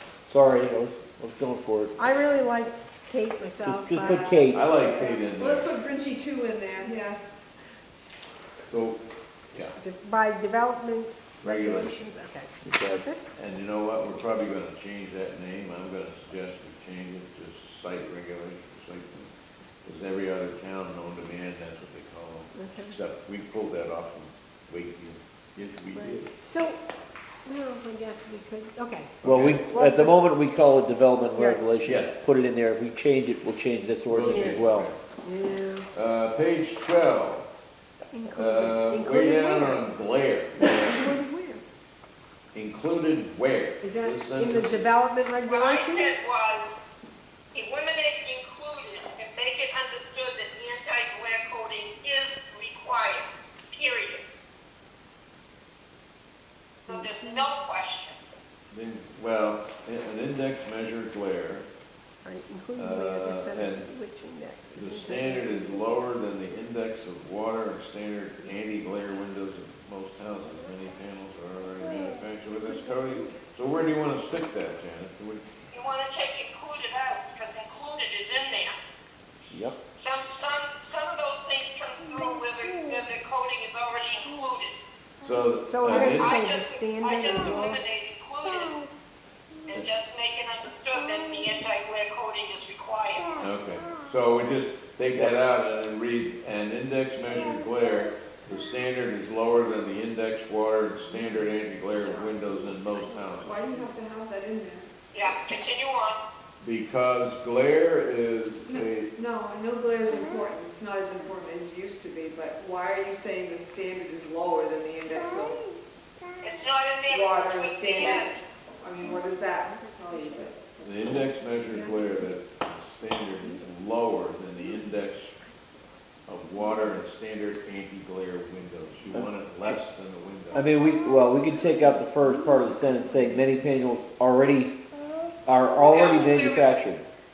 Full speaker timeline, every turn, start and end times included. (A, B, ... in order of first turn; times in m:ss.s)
0:00.3-0:02.0 A
0:02.0-0:04.5 B
0:03.6-0:04.6 A
0:04.5-0:05.7 C
0:04.8-0:07.2 D
0:08.7-0:09.0 C
0:09.8-0:13.2 B
0:11.4-0:12.0 C
0:12.6-0:13.0 A
0:13.4-0:19.3 C
0:19.8-0:26.3 C
0:22.5-0:23.0 B
0:25.9-0:26.8 B
0:27.4-0:29.1 B
0:29.2-0:29.7 C
0:29.2-0:34.9 A
0:29.7-0:30.4 B
0:31.8-0:32.1 C
0:34.1-0:35.0 C
0:34.3-0:34.6 B
0:35.2-0:35.8 B
0:35.9-0:37.4 C
0:38.1-0:39.8 B
0:38.3-0:41.0 C
0:40.6-0:41.6 B
0:42.5-0:44.8 C
0:43.8-0:46.1 B
0:45.5-0:46.7 E
0:47.5-0:54.2 E
0:56.9-0:58.2 E
0:56.9-0:57.4 B
0:58.7-1:01.7 C
1:02.2-1:05.6 B
1:02.7-1:03.9 C
1:04.7-1:15.5 C
1:12.7-1:13.4 B
1:15.7-1:18.8 E
1:19.5-1:19.8 A
1:20.0-1:24.7 E
1:25.2-1:26.4 C
1:25.6-1:27.8 B
1:26.0-1:28.8 E
1:29.7-1:33.4 E
1:33.4-1:43.5 C
1:41.1-1:41.5 D
1:43.4-1:45.4 D
1:45.1-1:46.2 E
1:46.6-1:49.1 C
1:48.7-1:55.6 D
1:56.4-1:58.4 E
1:57.1-2:01.3 D
1:59.7-2:00.4 B
2:00.8-2:05.3 C
2:01.7-2:02.3 B
2:06.3-2:10.7 C
2:10.5-2:14.7 A
2:15.4-2:17.0 A
2:15.9-2:16.8 E